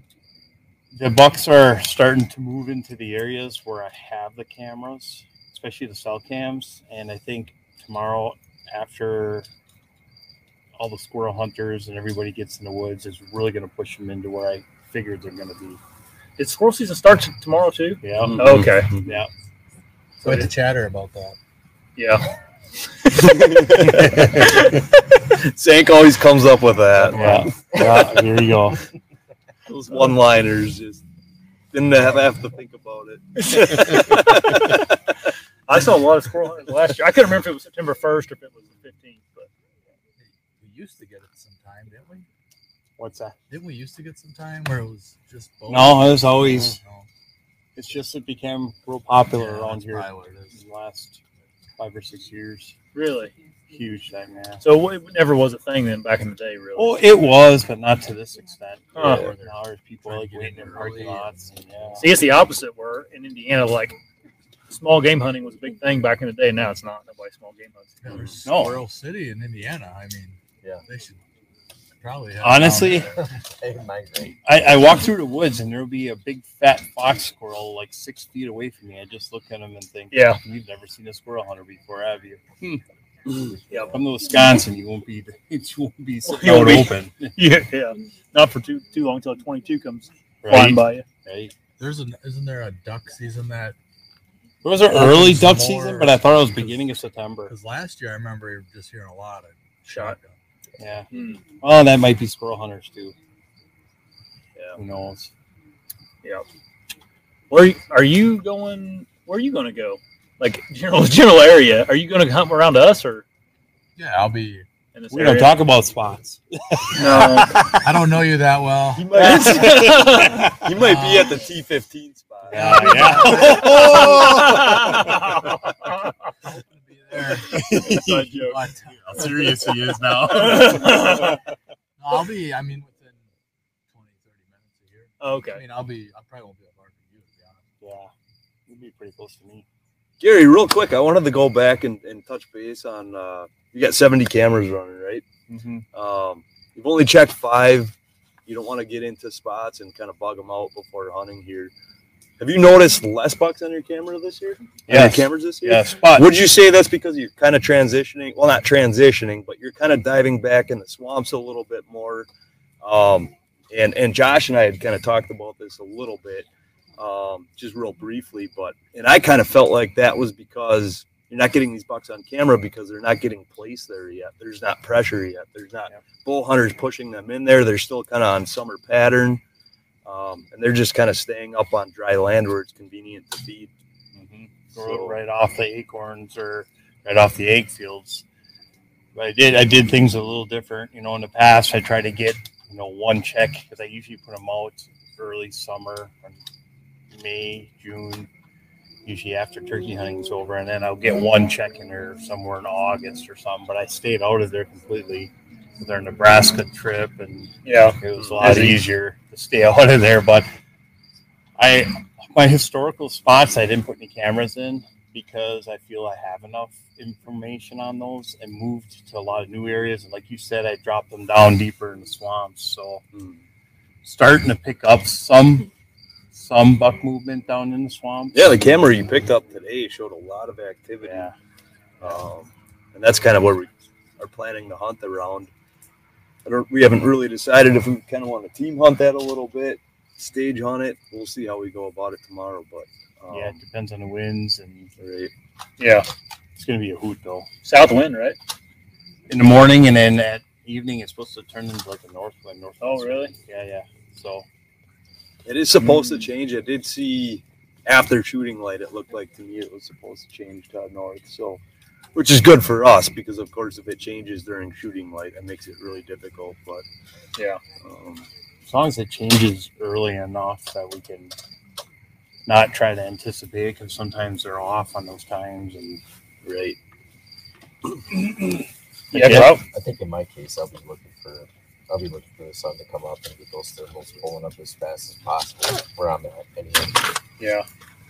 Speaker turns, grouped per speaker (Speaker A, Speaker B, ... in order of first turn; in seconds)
Speaker A: 0.9-9.5, 10.7-15.8, 18.0-19.3, 23.9-24.6, 27.1-28.8, 43.0-43.4, 45.7-46.8, 47.8-51.2, 51.8-52.8, 53.7-54.6, 56.8-62.1, 68.4-68.8, 72.4-73.1, 74.4-82.8, 83.3-87.3, 90.4-91.5, 94.6-97.5, 100.8-103.2, 104.8-105.3, 115.1-118.0, 119.2-121.3, 122.5-125.2, 127.5-128.5, 129.1-131.4, 137.8-138.1, 138.7-139.7, 145.5-145.8, 154.8-156.4, 184.1-188.2, 189.1-196.4, 197.1-198.3, 199.0-210.5, 211.6-223.0, 224.0-225.7, 226.3-228.8, 231.0-231.3, 243.3-244.9, 246.5-247.5, 249.3-254.4, 268.6-271.3, 272.4-276.0, 279.1-279.6
Speaker B: 16.4-18.9, 22.0-22.3, 35.7-39.5, 52.9-53.3, 54.6-57.0, 59.0-59.2, 62.0-64.0, 64.7-68.0, 80.1-80.4, 86.2-91.0, 99.8-100.2, 101.1-101.4, 107.5-113.2, 114.9-115.6, 116.9-117.6, 119.2-120.5, 122.9-126.1, 127.9-128.2, 130.2-131.4, 135.2-135.6, 207.6-208.8, 245.8-246.1, 247.6-248.4, 252.8-253.3, 255.8-256.2, 279.1-279.6, 287.4-287.6
Speaker C: 18.1-19.2, 23.1-27.7, 29.7-31.0, 31.7-35.0, 59.0-59.3, 68.1-68.4, 104.5-104.8, 119.0-124.2, 140.2-145.2, 145.9-147.9, 148.4-151.7, 152.4-162.3, 162.8-179.4, 180.0-183.7, 184.7-185.2, 208.1-208.7, 223.1-223.4, 228.3-231.3, 232.0-235.5, 236.4-243.6, 245.0-245.3, 255.4-261.6, 262.1-266.8, 267.8-268.2, 276.4-276.8
Speaker D: 20.2-21.4, 40.6-42.2, 43.5-47.1, 49.3-50.6, 58.9-62.0, 68.0-71.2, 72.0-73.3, 91.8-93.8, 94.9-100.3, 114.0-114.6, 117.8-119.1, 122.6-125.0, 126.4-129.9, 132.0-133.2, 133.9-137.6
Speaker E: 27.8-28.0, 73.2-74.4, 279.2-287.1